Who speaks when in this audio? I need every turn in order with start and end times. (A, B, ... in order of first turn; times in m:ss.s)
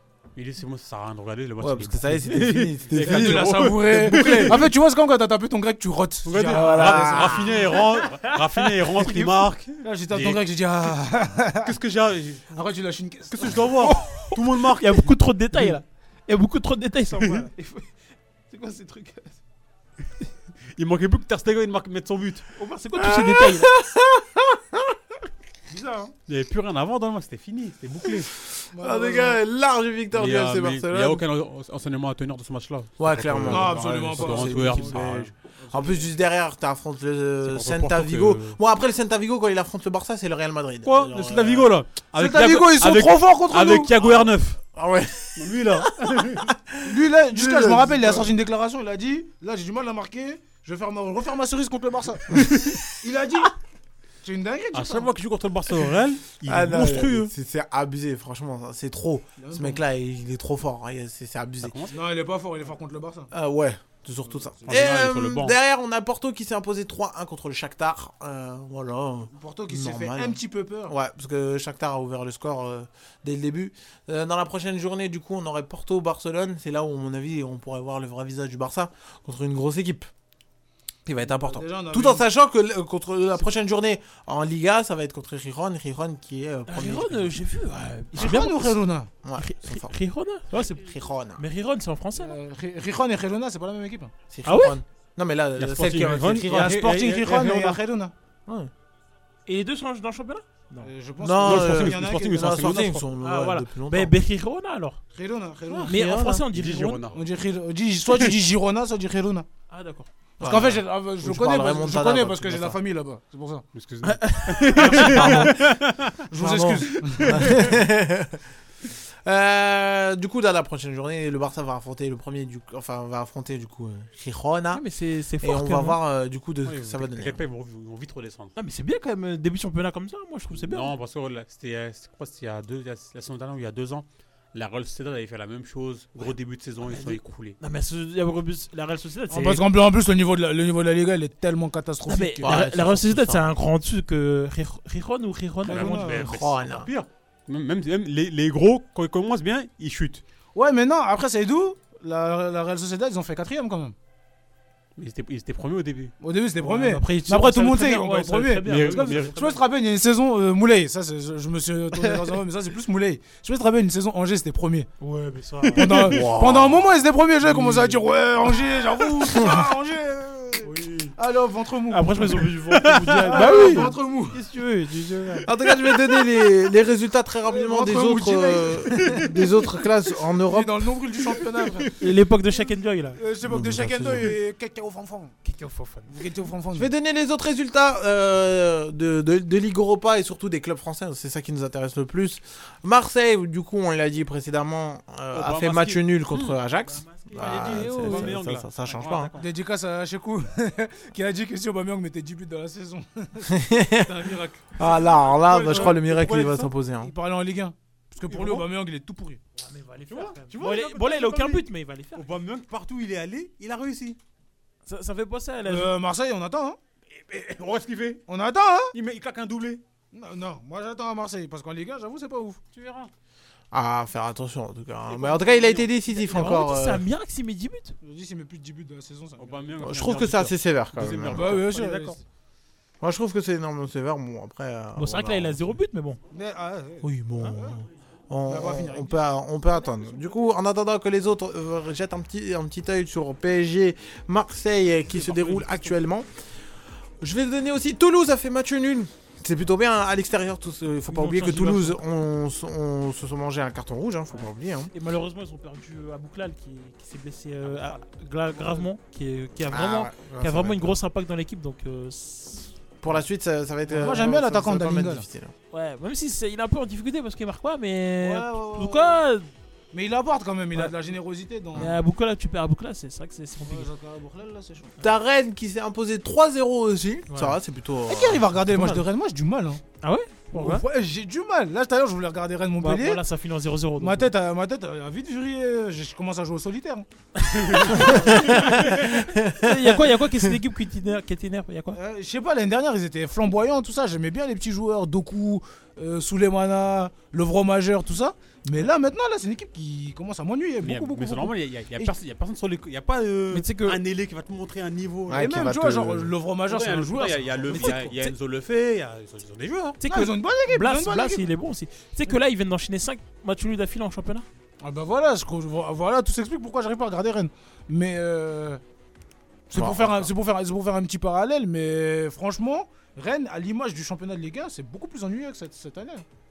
0:00.4-0:04.6 A
0:01.6-0:04.5 B
0:02.9-0:07.6 C
0:06.2-0:10.4 A
0:06.5-0:07.5 B
0:07.9-0:09.4 D
0:09.8-0:11.8 C
0:11.6-0:12.4 A
0:12.5-0:13.9 C
0:13.3-0:15.8 A
0:14.8-0:17.5 D
0:18.5-0:19.3 C
0:20.8-0:22.4 A
0:22.6-0:23.7 D
0:23.0-0:24.8 B
0:25.7-0:26.1 C
0:26.3-0:28.3 A
0:28.7-0:29.4 C
0:28.7-0:31.2 B
0:30.1-0:35.3 A
0:33.0-0:41.7 B
0:33.4-0:36.1 C
0:37.4-0:38.6 A
0:40.8-0:44.6 A
0:42.1-0:44.0 C
0:44.1-0:46.5 B
0:45.4-0:46.5 A
0:46.8-0:52.5 C
0:47.3-0:48.3 B
0:52.4-0:52.7 B
0:53.0-0:53.5 C
0:54.2-0:55.1 C
0:54.7-0:57.3 A
0:56.4-1:01.8 B
0:59.4-0:59.8 C
1:01.6-1:01.9 A
1:01.9-1:03.3 C
1:03.3-1:20.1 B
1:04.2-1:04.9 C
1:04.7-1:05.5 A
1:09.3-1:10.9 C
1:21.0-1:27.4 B
1:21.2-1:22.3 C
1:26.7-1:28.8 D
1:28.1-1:29.1 C
1:29.2-1:29.9 B
1:29.4-1:32.4 D
1:30.6-1:31.4 B
1:32.2-1:34.1 C
1:34.3-1:36.8 B
1:34.4-1:34.8 D
1:35.6-1:37.8 A
1:36.2-1:38.1 C
1:39.5-1:40.9 D
1:40.8-1:42.7 C
1:41.2-1:44.1 B
1:41.4-1:43.0 A
1:43.2-1:45.0 D
1:45.1-1:46.0 C
1:45.8-1:46.5 B
1:45.8-1:47.0 D
1:46.5-1:47.2 A
1:47.1-1:49.4 C
1:49.7-1:50.1 D
1:50.4-1:52.8 B
1:50.4-1:53.6 C
1:53.7-1:56.2 A
1:54.0-1:55.4 D
1:54.9-1:55.6 B
1:56.3-1:57.4 C
1:56.3-1:58.4 B
1:57.4-1:57.6 A
1:59.2-2:04.8 B
2:04.7-2:06.0 D
2:05.4-2:07.4 B
2:06.6-2:08.5 A
2:08.6-2:10.9 D
2:10.5-2:17.6 A
2:16.8-2:19.6 D
2:19.3-2:22.5 C
2:22.0-2:26.2 D
2:22.4-2:23.5 B
2:25.6-2:26.3 C
2:25.7-2:30.2 A
2:26.1-2:26.9 B
2:30.5-2:33.9 C
2:35.0-2:36.1 A
2:36.2-2:44.9 C
2:36.6-2:39.6 D
2:38.6-2:39.5 A
2:45.0-2:46.1 D
2:45.6-2:46.3 A
2:45.8-2:52.4 C
2:46.1-2:46.8 B
2:47.5-2:48.0 A
2:51.9-2:55.5 D
2:52.7-2:53.4 A
2:53.2-2:54.4 C
2:55.4-3:00.8 B
2:57.4-2:59.3 C
3:00.4-3:01.9 C
3:02.0-3:03.2 D
3:03.2-3:05.3 C
3:03.5-3:04.2 B
3:05.4-3:06.1 D
3:06.1-3:06.9 C
3:06.7-3:19.3 B
3:15.3-3:16.6 A
3:16.8-3:18.3 D
3:17.4-3:19.4 A
3:19.4-3:29.4 C
3:23.5-3:24.1 B
3:24.8-3:27.1 B
3:28.3-3:28.6 A
3:29.6-3:32.2 D
3:30.1-3:31.6 A
3:32.1-3:34.2 A
3:34.8-3:35.9 D
3:35.6-3:36.8 C
3:37.2-3:38.2 A
3:38.3-3:38.9 C
3:38.9-3:39.8 A
3:40.1-3:42.6 C
3:42.7-3:43.1 A
3:43.7-3:47.0 B
3:45.1-3:46.0 A
3:46.3-3:48.0 D
3:48.0-3:49.7 C
3:49.4-3:52.2 A
3:49.8-3:51.6 B
3:51.3-3:52.2 C
3:53.0-3:55.7 B
3:55.0-3:56.2 D
3:56.3-3:57.8 C
3:57.0-4:06.2 B
3:58.5-3:59.2 C
4:05.2-4:05.9 A
4:07.2-4:14.9 B
4:11.1-4:12.0 D
4:14.9-4:22.8 D
4:17.6-4:18.0 A
4:19.7-4:21.0 B
4:23.0-4:25.5 B
4:23.9-4:25.2 C
4:25.7-4:29.5 D
4:28.2-4:29.2 C
4:29.9-4:32.0 C
4:31.7-4:33.9 D
4:33.6-4:34.9 C
4:35.0-4:38.5 B
4:37.3-4:37.6 D
4:38.0-4:39.8 C
4:40.0-4:40.8 D
4:40.5-4:43.2 C
4:42.8-4:44.3 D
4:44.0-4:47.0 C
4:47.6-4:48.8 A
4:47.7-4:48.2 D
4:48.6-4:50.0 B
4:49.5-4:52.0 D
4:51.9-5:01.5 C
5:00.8-5:05.5 A
5:03.5-5:04.0 D
5:05.3-5:06.3 B
5:05.3-5:08.2 C
5:06.7-5:10.0 A
5:07.7-5:08.3 D
5:10.0-5:14.4 D
5:10.0-5:11.4 C
5:14.8-5:18.8 C
5:19.7-5:26.2 C
5:19.7-5:20.3 B